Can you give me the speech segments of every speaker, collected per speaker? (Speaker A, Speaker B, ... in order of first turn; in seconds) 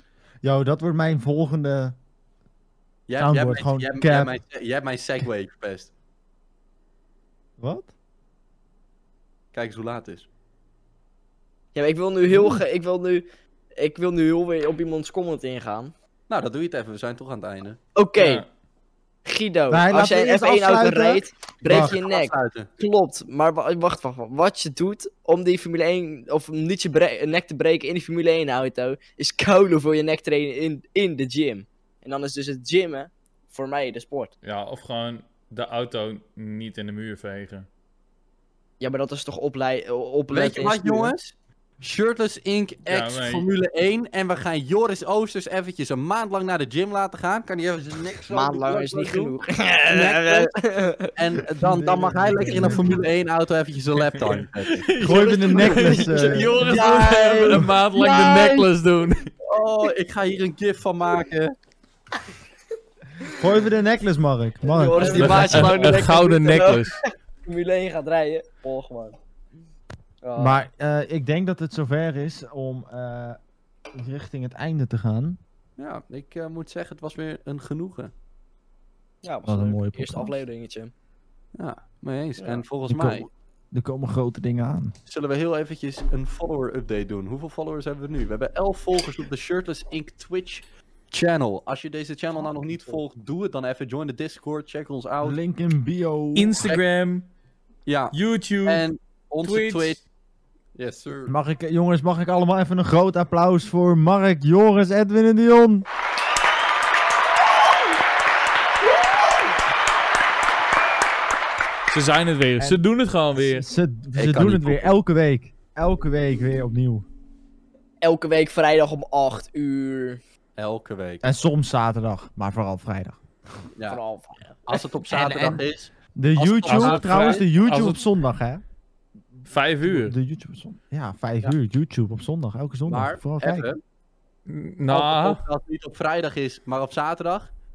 Speaker A: 0.4-2.0, 3.2-4.4, 7.6-7.9, 19.7-22.0, 51.6-53.1, 55.0-56.6, 63.3-65.7, 70.4-73.4, 73.9-75.4, 79.5-80.4, 82.9-84.9, 95.2-96.7, 101.3-105.9, 113.3-117.0, 121.2-123.2, 126.2-128.6, 129.8-133.7
Speaker B: 3.1-5.9, 9.5-10.3, 16.3-17.8, 21.6-22.7, 40.3-50.5, 51.1-55.2, 56.6-58.7, 59.5-61.5, 65.0-66.1, 75.8-78.1, 81.6-83.3, 85.1-95.4, 97.9-100.0, 100.8-101.3, 114.2-114.9, 120.6-121.3, 124.7-127.4, 132.9-133.8, 134.9-137.5
Speaker C: 11.8-13.3, 13.8-15.9, 17.9-18.4, 19.2-34.3, 38.8-41.1, 48.3-51.2, 55.5-58.6, 64.6-69.2, 70.2-70.6, 79.2-80.9, 82.4-82.6, 118.0-120.2, 123.9-125.6
Speaker D: 18.2-18.5, 34.4-37.7, 42.9-43.5, 54.1-59.3, 65.1-67.0, 96.3-97.3, 98.1-98.8, 99.4-100.0, 111.9-113.7, 126.6-128.0, 129.5-130.2, 134.5-135.4